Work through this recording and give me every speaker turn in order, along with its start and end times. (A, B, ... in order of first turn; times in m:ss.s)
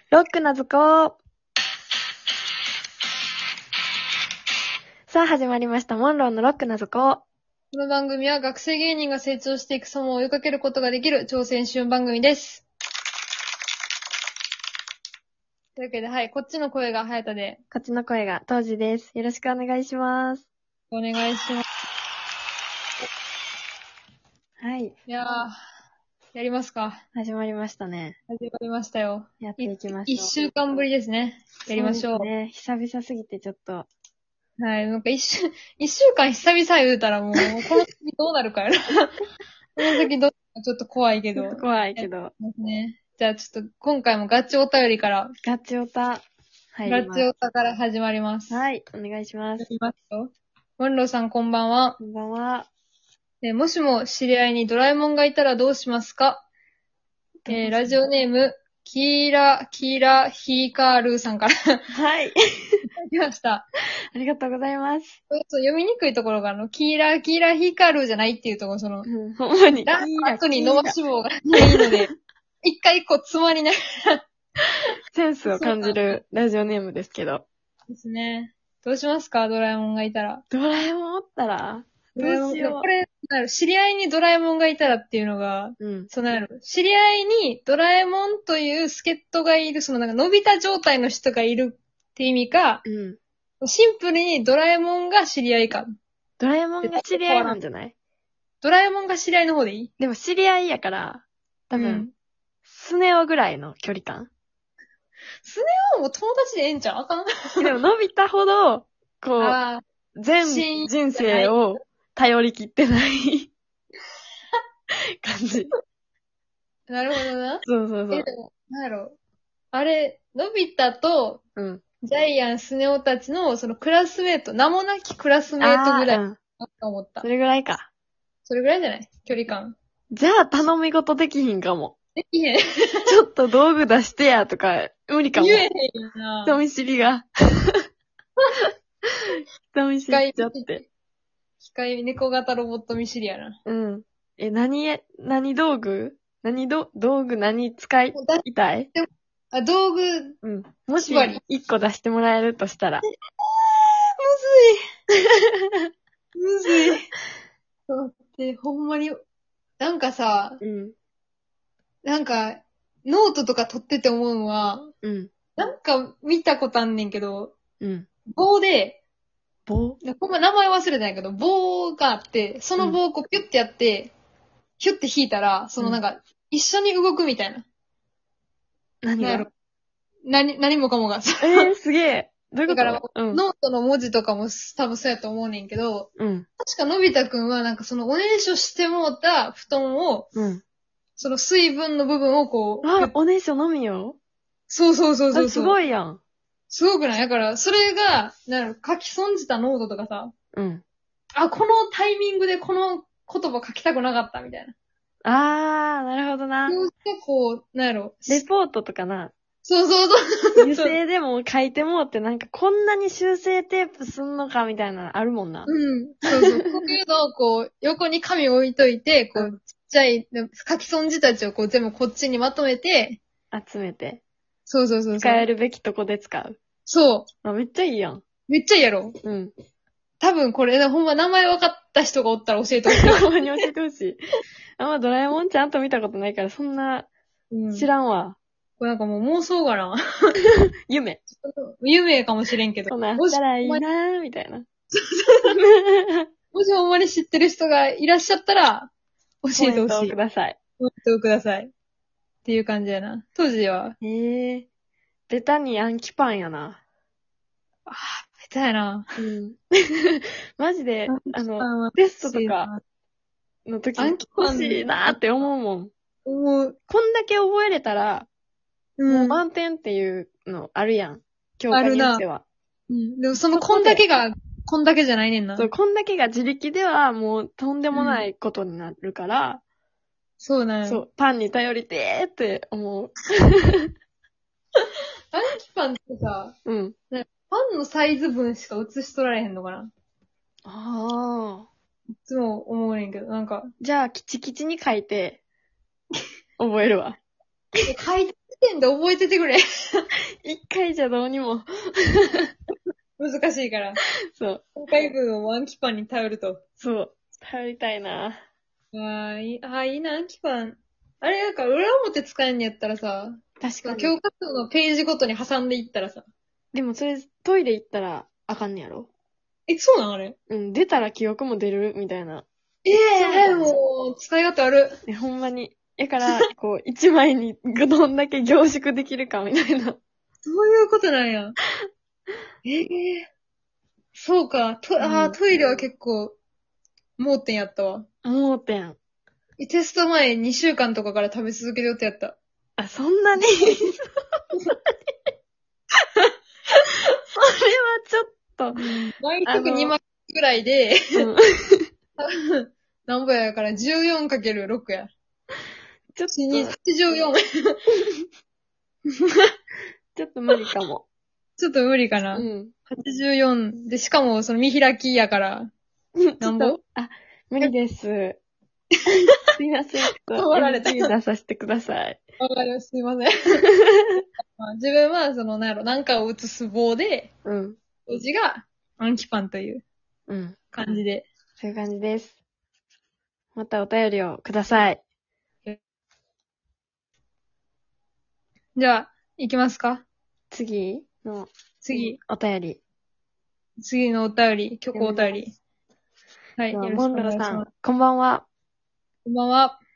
0:00.1-0:01.2 A
0:05.1-0:07.2 A
0:07.7-0:12.6 B
0:15.8-0:17.6 B
0:17.7-0:20.5 A
0:20.9-0:21.6 B
0:24.6-0:24.9 A
0:25.1-0:25.5 B
0:26.3-0:27.0 B
0:27.1-0:28.2 A
0:28.3-0:32.3 B
0:29.4-0:30.3 A
0:31.7-0:33.9 A
0:34.6-0:39.1 B
0:39.8-0:45.3 B
0:41.4-0:42.3 A
0:45.4-0:47.3 A
0:46.8-0:48.7 B
0:48.5-0:49.7 A
0:49.6-0:52.0 B
0:52.0-0:52.7 A
0:53.4-0:56.4 B
0:57.4-0:58.0 A
0:57.5-1:01.8 B
1:01.9-1:02.8 A
1:03.1-1:03.6 B
1:04.1-1:05.2 A
1:05.3-1:09.1 B
1:09.0-1:11.0 A
1:09.7-1:12.1 B
1:11.6-1:11.9 A
1:12.6-1:14.2 B
1:15.1-1:17.4 A
1:15.4-1:16.2 B
1:17.9-1:20.4 B
1:20.5-1:22.9 A
1:22.2-1:32.8 B
1:25.8-1:26.1 A
1:32.8-1:33.2 A
1:33.6-1:35.9 B
1:36.4-1:37.9 A
1:36.8-1:37.6 B
1:38.6-1:39.9 B
1:40.0-1:42.1 A
1:41.7-1:42.1 B
1:42.6-1:44.3 A
1:45.4-1:47.7 B
1:47.6-1:49.6 A
1:49.4-1:49.8 B
1:50.1-1:53.5 A
1:50.4-1:51.6 B
1:55.2-1:55.7 A
1:56.9-1:59.2 B
1:57.6-1:58.3 A
1:59.7-2:01.4 B
2:01.6-2:01.8 A
2:02.0-2:07.2 B
2:05.6-2:06.4 A
2:07.2-2:07.9 A
2:08.4-2:09.8 B
2:10.1-2:11.9 A
2:12.2-2:13.1 B
2:13.0-2:15.6 A
2:15.3-2:16.6 B
2:16.4-2:17.8 A
2:19.3-2:20.8 A
2:20.1-2:20.8 B
2:21.6-2:23.6 B
2:23.6-2:28.9 A
2:28.1-2:30.4 B
2:30.4-2:33.0 A
2:31.0-2:31.4 B
2:33.1-2:34.8 B
2:36.4-2:37.1 B
2:37.9-2:39.2 B
2:39.8-2:40.6 B
2:40.6-2:40.9 A
2:42.0-2:44.9 B
2:45.0-2:45.3 A
2:45.6-2:47.5 B
2:47.8-2:48.1 A
2:48.3-2:49.0 B
2:49.7-2:50.0 A
2:50.0-2:54.1 B
2:54.8-2:57.6 B
2:59.0-2:59.4 A
2:59.2-2:59.5 B
3:00.2-3:01.7 B
3:01.4-3:03.4 A
3:02.7-3:06.1 B
3:06.2-3:06.5 A
3:06.6-3:10.3 B
3:10.3-3:10.6 A
3:11.2-3:13.1 B
3:12.8-3:14.2 A
3:14.7-3:15.8 B
3:15.3-3:16.2 A
3:16.7-3:20.3 B
3:20.5-3:20.8 A
3:21.3-3:24.7 B
3:25.2-3:26.8 A
3:26.7-3:28.4 B
3:28.3-3:29.3 A
3:29.6-3:31.0 B
3:30.6-3:35.7 A
3:35.7-3:43.2 B
3:36.6-3:36.9 A
3:43.5-3:44.2 A
3:44.7-3:45.5 B
3:45.2-3:46.6 A
3:46.8-3:47.3 B
3:47.4-3:48.2 A
3:48.5-3:49.2 B
3:49.2-3:49.5 A
3:50.2-3:53.2 B
3:53.0-3:54.2 A
3:54.8-3:57.1 A
3:57.5-3:57.9 B
3:57.7-3:58.4 A
3:58.8-4:00.0 B
4:00.9-4:01.2 A
4:01.3-4:03.8 B
4:02.9-4:04.6 A
4:05.1-4:05.5 B
4:05.5-4:06.3 A
4:06.5-4:08.9 B
4:09.4-4:10.2 B
4:09.5-4:10.6 A
4:10.8-4:11.7 B
4:12.4-4:14.0 B
4:14.0-4:14.7 A
4:15.3-4:16.8 A
4:17.9-4:19.2 B
4:19.2-4:22.7 A
4:21.1-4:22.8 B
4:23.6-4:25.9 A
4:24.0-4:25.5 B
4:26.2-4:26.8 B
4:26.9-4:28.3 A
4:29.0-4:29.4 B
4:29.1-4:32.4 A
4:31.7-4:32.2 B
4:32.9-4:35.7 B
4:33.5-4:34.1 A
4:35.6-4:39.6 A
4:37.9-4:38.2 B
4:40.4-4:41.0 B
4:40.8-4:43.9 A
4:45.3-4:46.5 B
4:46.6-4:46.9 A
4:47.1-4:49.9 B
4:50.6-4:51.7 A
4:52.2-4:53.7 B
4:53.8-4:55.4 A
4:56.6-4:57.2 A
4:57.8-5:00.0 B
5:00.4-5:02.5 A
5:03.2-5:04.0 B
5:04.3-5:04.6 A
5:04.8-5:06.6 B
5:06.8-5:08.4 A
5:08.9-5:16.2 B
5:13.6-5:14.2 A
5:16.7-5:19.1 A
5:19.7-5:20.4 B
5:20.5-5:22.5 A
5:22.8-5:25.0 B
5:23.1-5:23.8 A
5:25.0-5:30.0 A
5:30.4-5:31.6 B
5:32.6-5:33.3 B
5:34.1-5:36.4 B
5:35.0-5:35.4 A
5:37.2-5:38.0 B
5:38.2-5:39.0 A
5:39.6-5:42.4 B
5:42.8-5:44.0 A
5:47.4-5:48.8 A
5:48.7-5:51.1 B
5:49.4-5:50.0 A
5:51.1-5:51.9 A
5:52.2-5:55.1 B
5:56.1-5:56.8 A
5:56.3-5:57.8 B
6:00.1-6:01.0 A
6:01.6-6:05.7 B
6:02.3-6:02.7 A
6:06.2-6:08.4 A
6:06.4-6:06.8 B
6:09.4-6:12.2 A
6:10.3-6:11.1 B
6:12.4-6:13.6 B
6:13.6-6:14.2 A
6:14.6-6:17.3 B
6:17.4-6:17.8 A
6:18.0-6:19.8 B
6:20.3-6:21.0 A
6:20.7-6:21.3 B
6:21.6-6:22.4 A
6:23.5-6:25.0 A
6:28.8-6:30.0 B
6:30.5-6:32.8 A
6:31.8-6:32.2 B
6:33.8-6:35.5 B
6:34.9-6:35.4 A
6:36.6-6:37.7 B
6:36.7-6:38.4 A
6:39.2-6:39.8 B